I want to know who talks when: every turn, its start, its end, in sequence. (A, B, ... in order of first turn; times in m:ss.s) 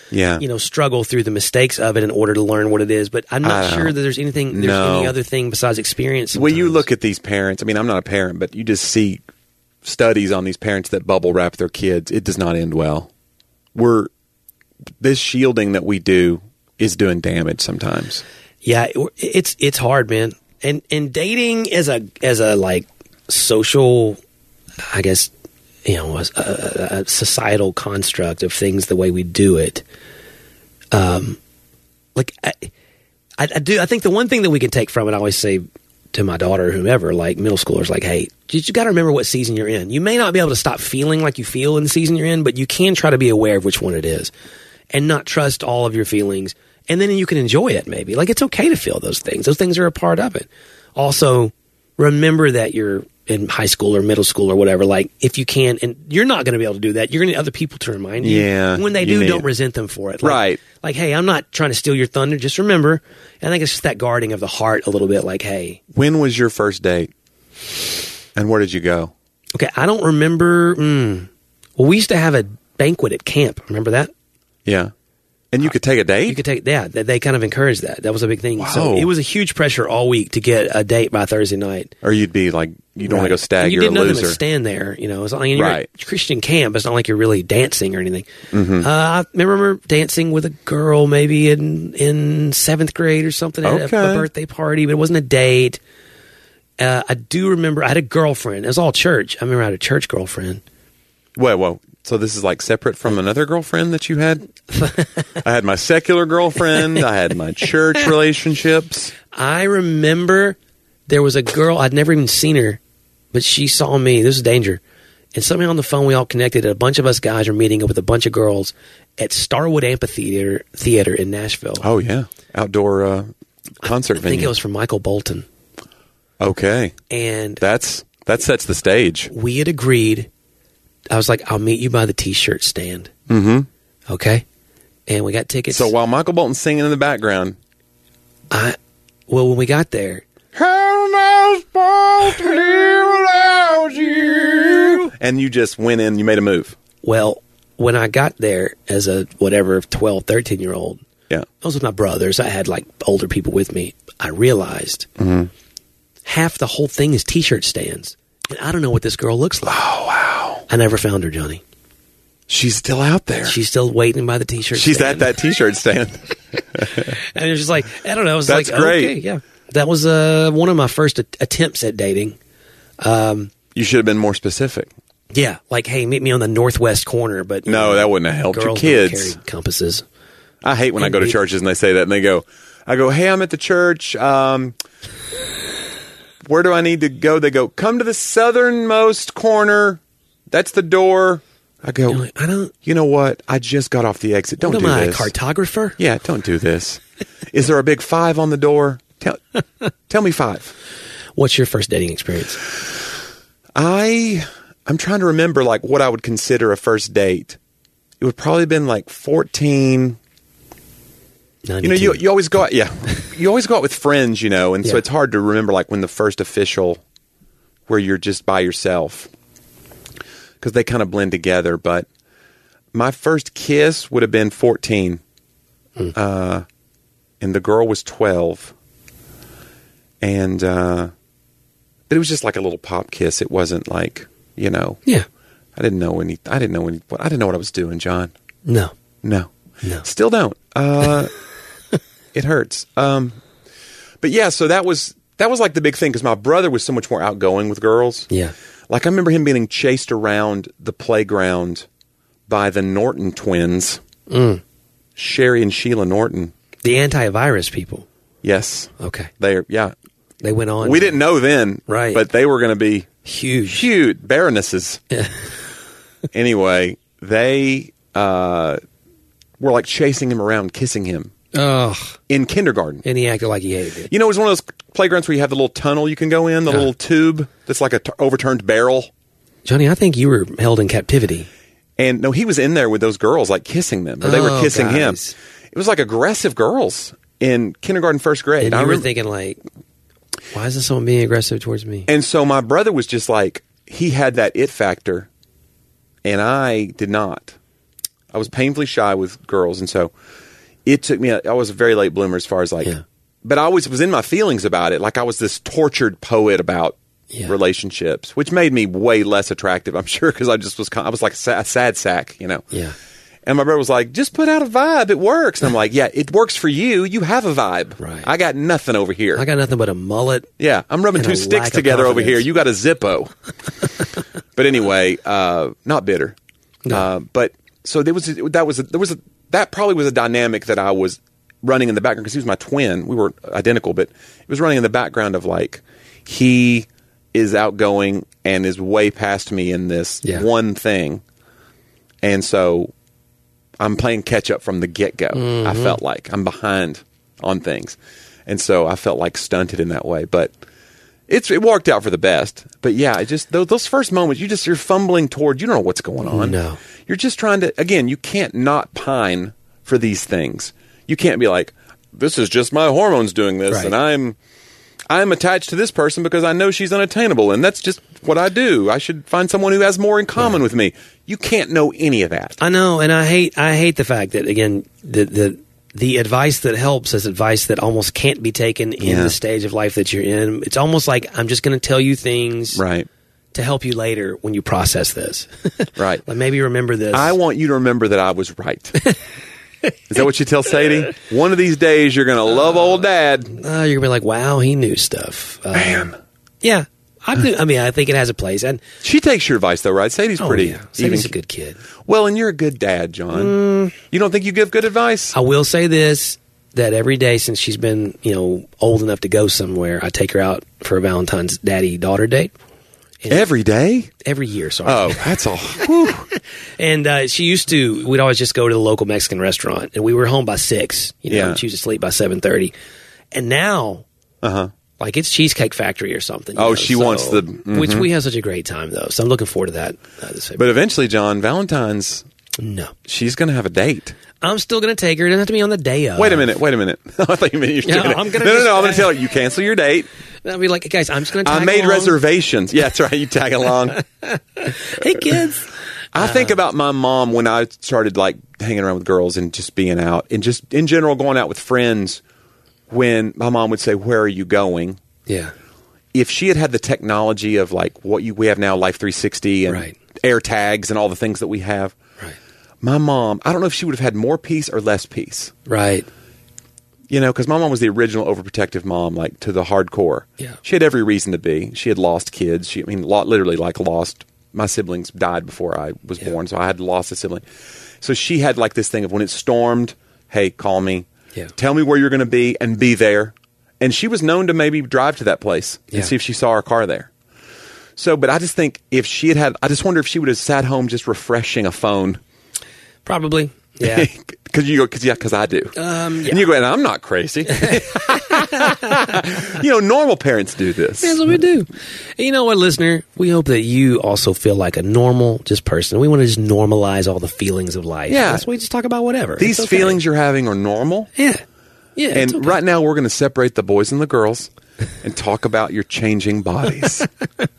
0:00.1-0:00.4 A
0:00.4-0:06.8 B
0:03.4-0:04.0 A
0:04.5-0:05.1 A
0:06.3-0:09.2 A
0:09.8-0:13.1 A
0:13.7-0:14.1 A
0:15.0-0:18.2 A
0:18.6-0:24.2 B
0:24.8-0:25.3 B
0:25.8-0:29.8 B
0:30.9-0:31.4 B
0:32.2-0:32.7 B
0:33.4-0:44.3 B
0:44.9-1:05.8 B
0:58.2-0:59.5 A
1:00.2-1:00.6 A
1:05.9-1:07.1 A
1:08.3-1:09.1 A
1:09.5-1:14.1 B
1:14.6-1:14.9 A
1:15.5-1:16.4 A
1:16.3-1:21.9 B
1:18.6-1:19.1 A
1:22.0-1:24.4 A
1:23.0-1:35.8 B
1:25.5-1:25.9 A
1:28.5-1:28.9 A
1:33.6-1:34.3 A
1:36.8-1:40.6 B
1:41.4-1:44.5 A
1:44.7-1:45.3 B
1:45.4-1:49.1 A
1:46.8-1:47.0 B
1:49.3-1:50.6 B
1:51.1-1:52.8 B
1:53.3-1:54.8 B
1:55.3-2:01.8 B
2:01.8-2:03.3 A
2:03.8-2:04.6 A
2:03.8-2:05.4 B
2:06.4-2:07.0 A
2:07.1-2:07.6 B
2:07.6-2:09.3 A
2:09.3-2:10.3 B
2:11.1-2:13.1 B
2:13.3-2:13.7 A
2:14.1-2:14.4 B
2:15.1-2:15.9 B
2:15.7-2:17.6 A
2:18.5-2:18.8 B
2:19.3-2:20.2 B
2:20.5-2:26.8 A
2:27.0-2:31.0 B
2:31.6-2:35.1 B
2:35.2-2:35.5 A
2:36.2-2:39.8 B
2:39.6-2:40.6 A
2:40.7-2:41.6 B
2:42.5-2:43.6 A
2:43.4-2:45.3 B
2:44.7-2:47.1 A
2:46.9-2:52.4 B
2:48.4-2:49.2 A
2:53.0-2:53.5 B
2:53.7-2:54.9 A
2:55.3-3:00.0 B
2:57.6-2:59.4 A
3:00.6-3:04.8 A
3:01.0-3:01.4 B
3:06.4-3:12.3 A
3:12.1-3:12.7 B
3:12.8-3:15.3 A
3:14.6-3:16.0 B
3:16.0-3:19.4 A
3:20.1-3:20.7 A
3:21.4-3:22.6 B
3:23.8-3:27.6 A
3:28.2-3:30.2 A
3:31.6-3:32.2 B
3:31.8-3:37.0 A
3:37.9-3:39.3 A
3:40.6-3:42.1 A
3:42.9-3:45.2 A
3:46.1-3:46.6 A
3:47.4-3:48.7 A
3:50.2-3:51.1 A
3:52.1-3:55.0 A
3:55.8-3:58.3 A
3:58.6-3:58.9 B
3:59.2-3:59.5 A
4:00.0-4:01.3 A
4:02.3-4:03.4 A
4:04.2-4:08.3 A
4:08.9-4:11.8 A
4:12.5-4:14.0 A
4:14.3-4:14.6 B
4:15.2-4:16.5 A
4:16.8-4:18.0 B
4:18.4-4:19.9 A
4:19.0-4:19.3 B
4:20.4-4:21.2 B
4:20.8-4:23.1 A
4:21.9-4:22.2 B
4:23.2-4:23.9 B
4:23.7-4:25.0 A
4:26.3-4:28.8 A
4:29.6-4:31.3 A
4:31.5-4:32.2 B
4:32.3-4:33.0 A
4:33.0-4:34.1 B
4:34.1-4:39.1 A
4:39.6-4:41.5 B
4:42.0-4:45.2 A
4:44.2-4:45.3 B
4:45.7-4:49.1 A
4:48.6-4:49.6 B
4:50.5-4:52.1 B
4:52.1-4:55.3 A
4:56.2-4:57.6 A
4:58.3-5:00.1 A
5:00.8-5:12.7 A
5:13.4-5:19.4 A
5:18.0-5:18.3 B
5:19.3-5:20.5 B
5:20.6-5:23.3 A
5:21.2-5:22.5 B
5:24.6-5:26.4 A
5:26.9-5:41.2 A
5:42.2-5:42.9 A
5:43.8-5:50.5 A
5:45.3-5:46.0 B
5:51.3-6:04.4 A
5:56.2-5:56.8 B
6:03.7-6:03.9 B
6:05.1-6:12.6 A
6:12.6-6:22.8 B
6:19.0-6:19.4 A
6:22.7-6:23.1 A
6:23.5-6:27.4 B
6:26.0-6:26.2 A
6:27.1-6:29.0 A
6:30.1-6:33.5 A
6:33.5-6:38.8 B
6:35.7-6:36.1 A
6:39.0-6:41.3 A
6:40.4-6:41.8 B
6:42.0-6:45.3 A
6:43.3-6:44.0 B
6:45.3-6:52.5 B
6:53.2-6:53.5 B
6:53.3-6:54.1 A
6:54.2-7:02.7 B
6:54.8-6:56.3 A
7:01.3-7:01.6 A
7:03.3-7:04.0 B
7:04.4-7:04.7 A
7:05.0-7:10.7 B
7:06.6-7:08.1 A
7:10.6-7:12.2 A
7:12.6-7:12.9 B
7:13.1-7:14.2 A
7:14.4-7:16.5 B
7:16.2-7:20.1 A
7:17.8-7:19.1 B
7:20.4-7:22.2 B
7:21.4-7:24.0 A
7:23.9-7:26.6 B
7:26.1-7:32.2 A
7:32.9-7:35.0 A
7:35.3-7:35.5 B
7:36.1-7:41.9 A
7:39.7-7:39.9 B
7:42.8-7:45.5 A
7:45.7-7:46.1 B
7:47.1-7:57.4 A
7:58.0-8:07.1 A
8:08.0-8:12.2 A
8:13.0-8:14.1 B
8:13.8-8:21.4 A
8:15.8-8:16.4 B
8:17.5-8:19.0 B
8:21.0-8:30.0 B
8:28.1-8:28.4 A
8:29.4-8:31.1 A
8:31.2-8:31.4 B
8:32.0-8:32.6 B
8:32.1-8:34.5 A
8:35.0-8:37.1 A